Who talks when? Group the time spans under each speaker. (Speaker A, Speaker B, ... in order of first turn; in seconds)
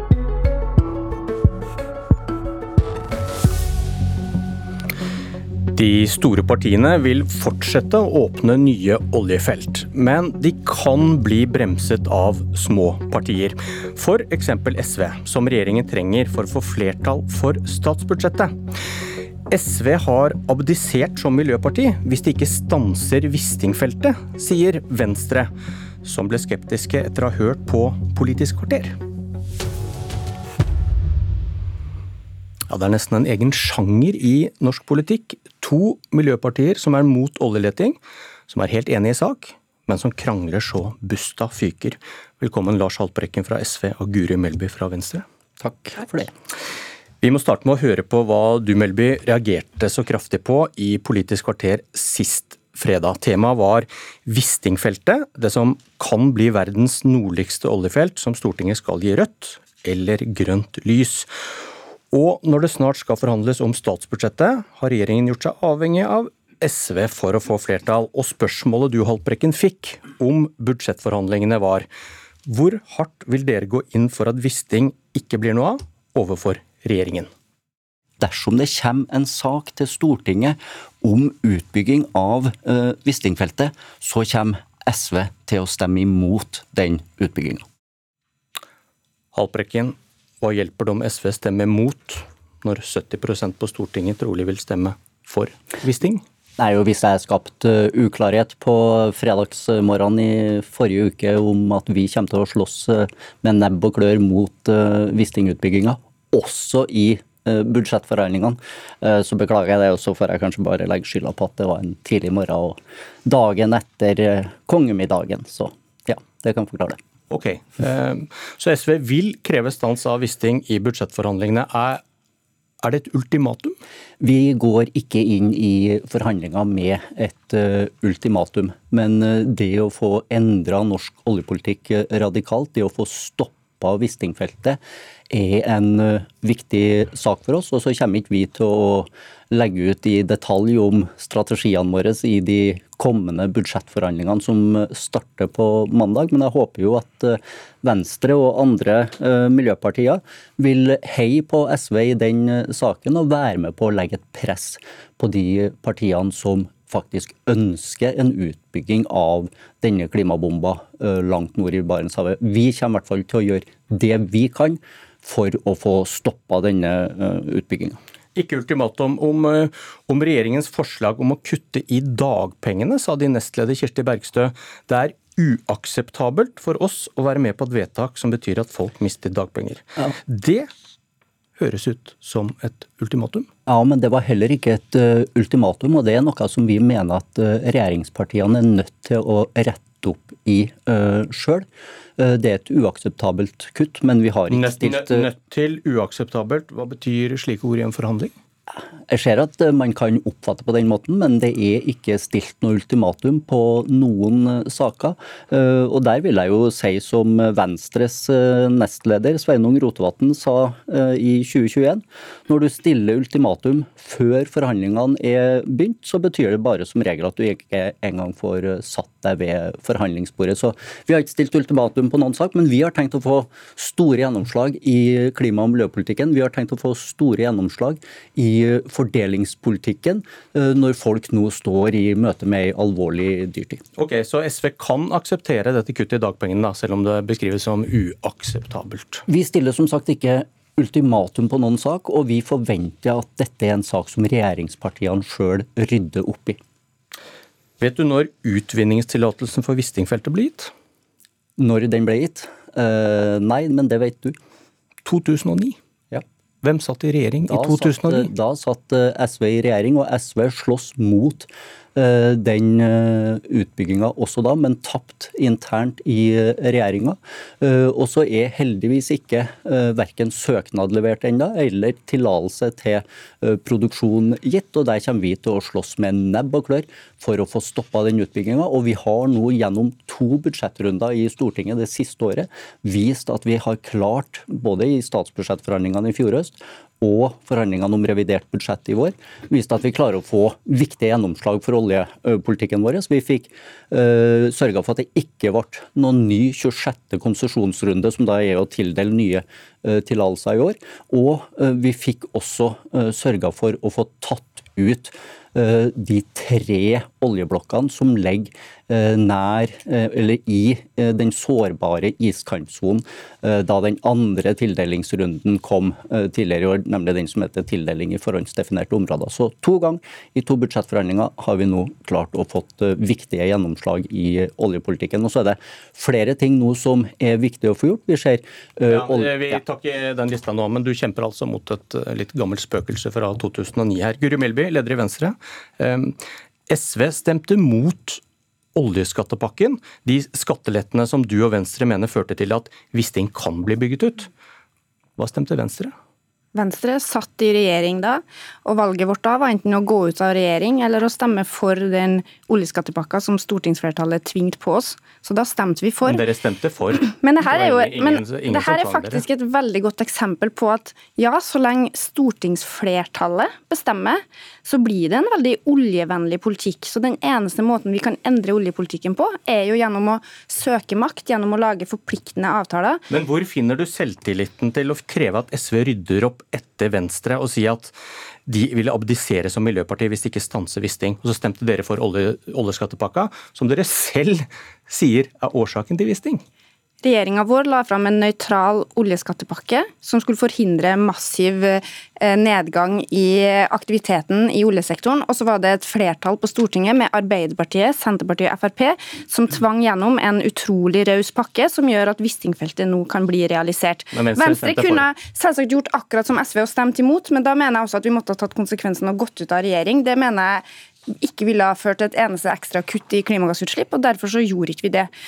Speaker A: 5.7-18.5, 19.5-25.5, 26.0-29.0, 32.7-45.2, 47.2-61.3, 62.1-71.9, 72.5-77.3, 89.3-96.2, 117.3-122.0, 122.8-123.8, 168.3-180.7, 181.6-183.5, 194.5-198.3, 234.0-239.2, 247.8-250.7, 255.1-255.8, 256.6-258.3, 328.9-338.2, 338.8-344.3, 345.2-345.9, 356.1-359.2, 373.1-377.9, 378.5-386.4, 404.1-405.1
Speaker B: 45.6-46.3, 78.2-87.7, 96.6-117.0, 124.2-168.0, 183.7-191.7, 192.2-195.3, 199.1-233.8, 239.3-246.6, 251.6-254.4, 257.5-329.6
Speaker C: 346.5-356.2, 356.9-373.0, 387.0-415.1